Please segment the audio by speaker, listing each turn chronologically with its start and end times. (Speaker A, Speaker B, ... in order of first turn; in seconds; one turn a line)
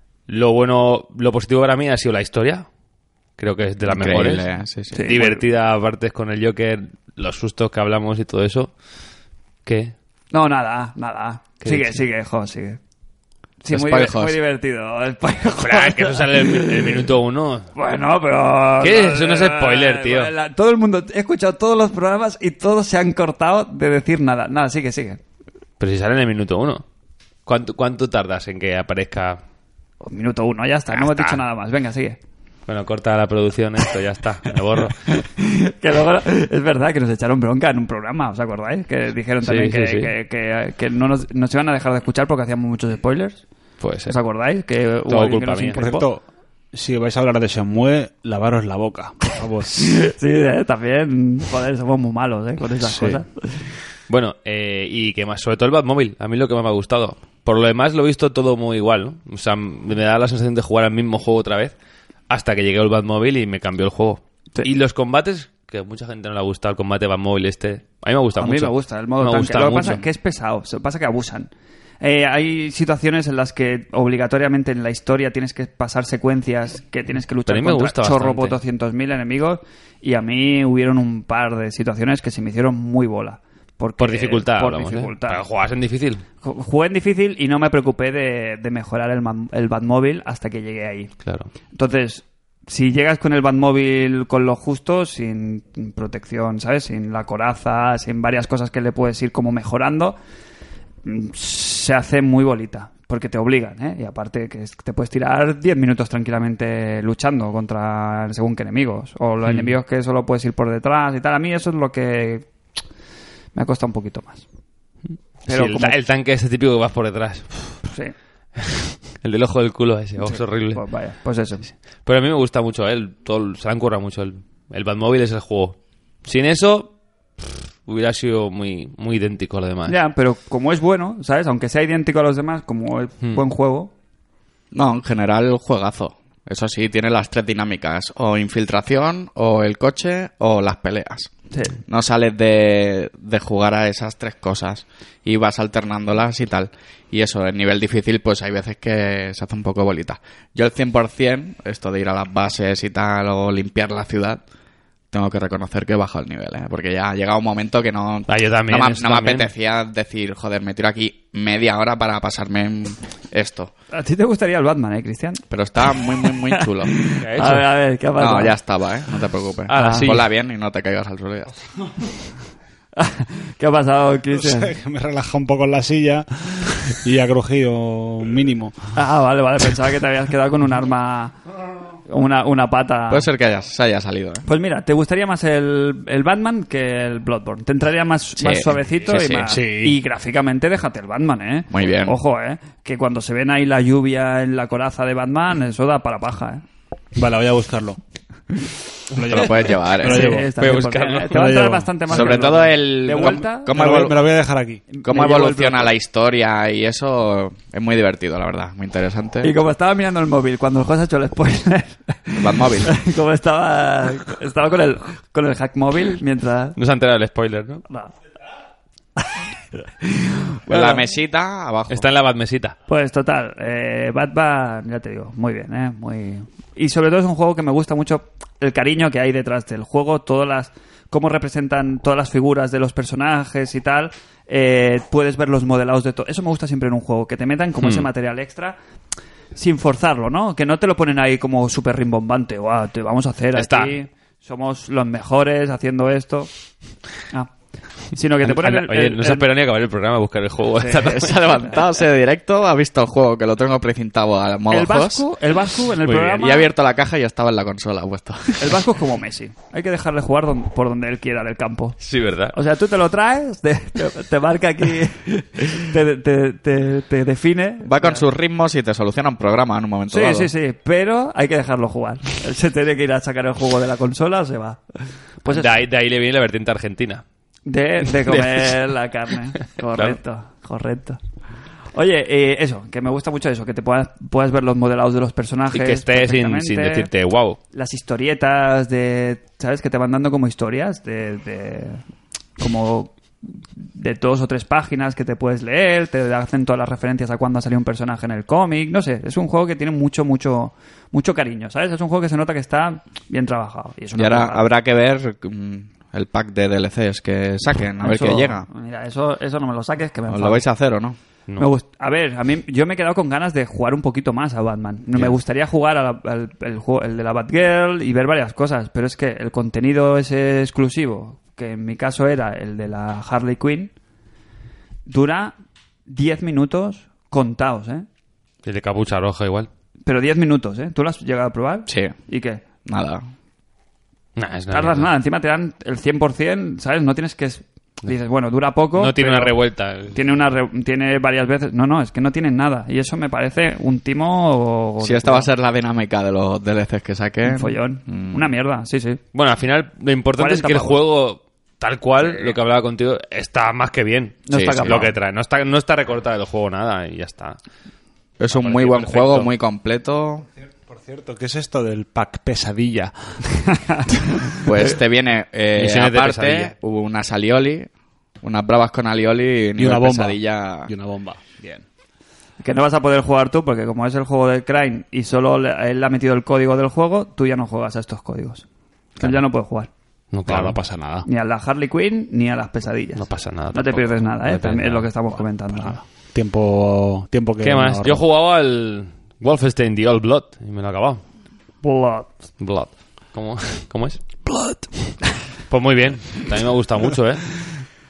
Speaker A: 0.3-2.6
Speaker A: 3.4-4.5
Speaker B: 3.8-5.1
Speaker C: 4.9-5.4
Speaker A: 5.0-8.7
Speaker A: 9.6-9.9
Speaker C: 10.3-12.8
Speaker A: 11.6-12.0
Speaker C: 13.6-17.0
Speaker B: 13.7-14.4
Speaker A: 15.6-17.7
Speaker C: 17.7-25.2
Speaker A: 18.8-20.3
Speaker A: 25.8-26.8
Speaker A: 27.4-29.4
Speaker C: 30.0-32.2
Speaker A: 30.9-31.4
Speaker A: 32.7-35.0
Speaker C: 34.9-43.4
Speaker A: 39.4-40.1
Speaker A: 43.8-44.1
Speaker C: 44.0-46.1
Speaker A: 45.1-45.8
Speaker D: 45.7-50.0
Speaker C: 49.7-53.7
Speaker D: 52.8-53.2
Speaker A: 54.1-61.7
Speaker A: 62.3-70.0
Speaker C: 68.4-71.5
Speaker C: 72.0-85.4
Speaker A: 77.5-78.6
Speaker A: 84.0-86.2
Speaker C: 86.4-91.1
Speaker C: 91.7-100.2
Speaker C: 101.0-112.5
Speaker A: 109.4-109.7
Speaker C: 113.5-114.4
Speaker C: 115.5-116.0
Speaker A: 115.5-117.8
Speaker C: 117.8-118.1
Speaker A: 118.6-120.8
Speaker C: 120.2-121.7
Speaker A: 122.0-129.9
Speaker C: 129.8-133.9
Speaker B: 134.7-141.3
Speaker C: 141.5-141.8
Speaker B: 141.9-154.4
Speaker B: 155.1-163.7
Speaker A: 158.3-159.5
Speaker C: 163.9-168.6
Speaker B: 165.5-166.9
Speaker A: 167.2-167.6
Speaker B: 168.2-171.5
Speaker A: 169.7-170.3
Speaker C: 169.7-170.2
Speaker C: 172.9-174.7
Speaker D: 174.3-178.8
Speaker C: 178.9-181.3
Speaker C: 182.0-183.3
Speaker B: 183.1-184.4
Speaker C: 184.4-196.6
Speaker B: 188.4-189.5
Speaker D: 189.4-190.0
Speaker B: 191.7-192.1
Speaker D: 197.1-198.0
Speaker D: 199.1-200.6
Speaker B: 199.2-200.3
Speaker C: 200.0-203.7
Speaker A: 200.6-201.5
Speaker D: 201.3-202.5
Speaker B: 202.1-204.2
Speaker D: 203.2-204.8
Speaker C: 204.9-205.9
Speaker B: 205.0-209.5
Speaker C: 209.4-216.8
Speaker B: 212.4-212.9
Speaker A: 216.8-217.8
Speaker C: 219.2-221.0
Speaker B: 220.7-222.1
Speaker A: 221.9-222.8
Speaker C: 222.9-238.8
Speaker A: 237.8-238.1
Speaker C: 239.5-246.5
Speaker A: 243.5-243.9
Speaker C: 248.1-249.4
Speaker A: 248.4-251.4
Speaker C: 250.8-251.8
Speaker B: 251.1-255.3
Speaker C: 254.7-256.7
Speaker B: 256.3-258.8
Speaker C: 258.6-262.0
Speaker A: 262.0-262.5
Speaker C: 262.5-268.2
Speaker B: 267.8-270.5
Speaker C: 270.1-275.7
Speaker A: 275.5-277.2
Speaker C: 277.6-281.2
Speaker A: 278.2-278.8
Speaker A: 279.6-280.1
Speaker C: 281.9-287.1
Speaker A: 285.7-287.6
Speaker C: 287.7-292.0
Speaker C: 292.6-304.7
Speaker B: 304.2-308.7
Speaker C: 308.0-310.6
Speaker B: 310.3-311.2
Speaker C: 311.6-323.9
Speaker C: 325.1-325.6
Speaker C: 326.1-328.1
Speaker A: 328.6-329.7
Speaker C: 330.1-332.6
Speaker B: 331.9-332.1
Speaker B: 332.8-333.2
Speaker A: 334.4-335.1
Speaker C: 334.7-345.5
Speaker A: 338.9-340.1
Speaker B: 345.0-348.5
Speaker C: 347.4-349.2
Speaker A: 349.3-357.6
Speaker C: 350.4-351.0
Speaker C: 354.4-355.1
Speaker B: 354.5-355.1
Speaker B: 358.4-360.5
Speaker A: 358.5-359.5
Speaker D: 360.9-363.4
Speaker C: 363.6-364.7
Speaker B: 364.6-367.9
Speaker A: 365.7-366.7
Speaker B: 368.4-370.9
Speaker D: 369.8-371.8
Speaker C: 372.6-378.6
Speaker C: 379.2-379.9
Speaker A: 380.3-380.8
Speaker D: 380.4-381.3
Speaker C: 381.2-386.0
Speaker A: 383.2-385.1
Speaker D: 385.8-388.2
Speaker A: 387.6-391.2
Speaker C: 391.8-392.3
Speaker A: 392.6-394.2
Speaker A: 395.7-397.6